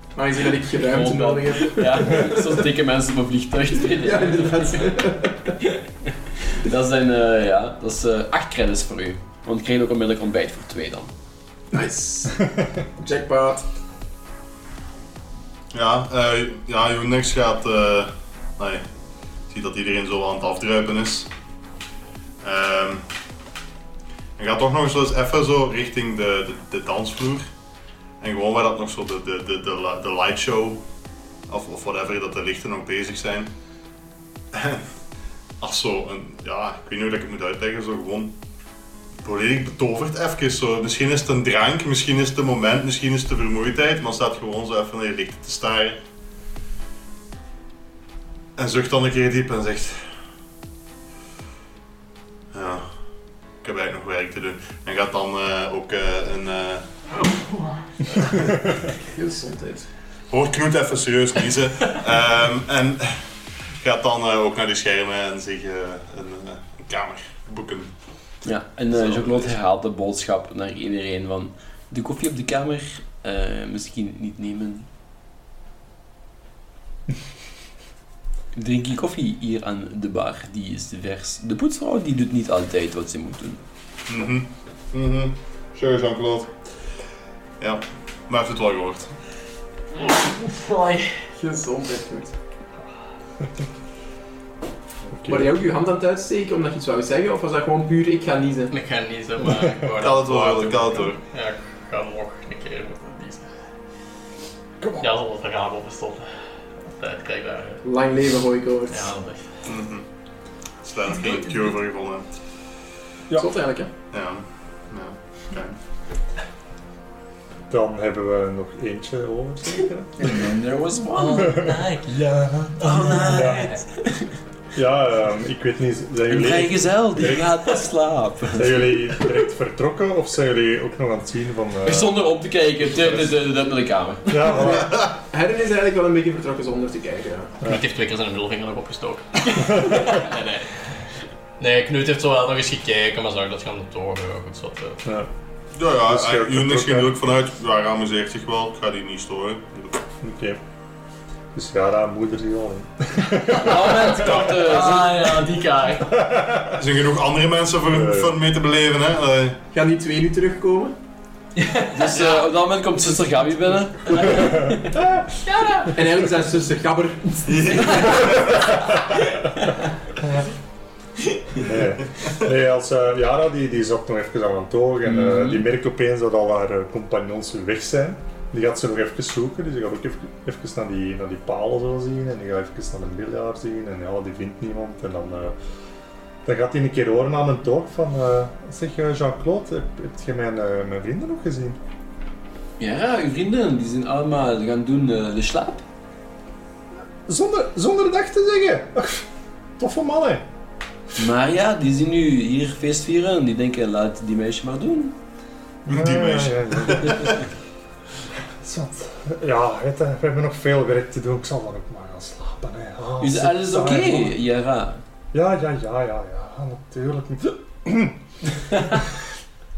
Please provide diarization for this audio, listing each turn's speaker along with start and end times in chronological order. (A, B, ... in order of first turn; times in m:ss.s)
0:00.2-0:02.6 A
0:00.8-0:04.7 B
0:03.9-0:05.6 A
0:06.4-0:11.1 B
0:11.7-0:13.7 A
0:15.7-0:18.8 C
0:19.5-0:21.3 C
0:22.4-0:23.0 C
0:24.4-0:27.5 C
0:28.2-0:30.8 C
0:31.5-0:33.5 C
0:34.5-0:34.9 C
0:35.6-0:38.3 C
0:39.2-0:46.0 C
0:48.6-0:50.1 C
0:52.5-0:53.0 C
0:53.6-0:56.9 C
0:57.1-0:59.9 A
1:00.3-1:03.2 C
1:03.8-1:07.9 C
1:08.4-1:14.9 B
1:09.1-1:09.4 C
1:18.5-1:23.6 B
1:24.1-1:26.5 C
1:27.6-1:29.1 C
1:30.0-1:31.2 D
1:31.4-1:32.4 A
1:35.2-1:35.5 E
1:35.3-1:38.7 A
1:38.7-1:43.6 D
1:40.0-1:41.2 C
1:44.8-1:45.1 E
1:45.0-1:46.4 D
1:47.0-1:47.8 D
1:47.8-1:49.1 A
1:48.9-1:49.5 D
1:49.7-1:50.1 C
1:50.8-1:52.3 C
1:53.3-1:53.9 A
1:54.1-1:55.8 C
1:57.7-2:00.5 E
2:00.2-2:01.6 B
2:01.2-2:03.8 D
2:01.4-2:03.7 E
2:02.8-2:04.3 B
2:04.8-2:07.7 E
2:06.3-2:09.0 B
2:08.6-2:12.3 E
2:11.8-2:14.7 B
2:12.8-2:13.4 E
2:14.3-2:15.0 E
2:14.7-2:17.6 A
2:17.6-2:25.0 D
2:25.8-2:30.0 C
2:26.0-2:27.1 E
2:30.2-2:30.6 E
2:31.5-2:34.4 E
2:33.5-2:35.4 B
2:34.2-2:36.2 D
2:36.1-2:36.8 E
2:36.8-2:39.6 C
2:37.9-2:38.4 E
2:39.7-2:40.9 A
2:41.6-2:42.4 D
2:41.9-2:44.9 B
2:44.3-2:45.2 E
2:45.4-2:45.9 D
2:45.9-2:48.6 A
2:47.5-2:48.7 C
2:51.6-3:05.6 E
3:06.4-3:11.8 E
3:12.8-3:15.8 B
3:17.3-3:20.5 E
3:21.2-3:25.2 B
3:25.9-3:27.5 E
3:25.9-3:27.4 C
3:28.4-3:34.4 E
3:33.2-3:35.0 B
3:35.3-3:38.2 E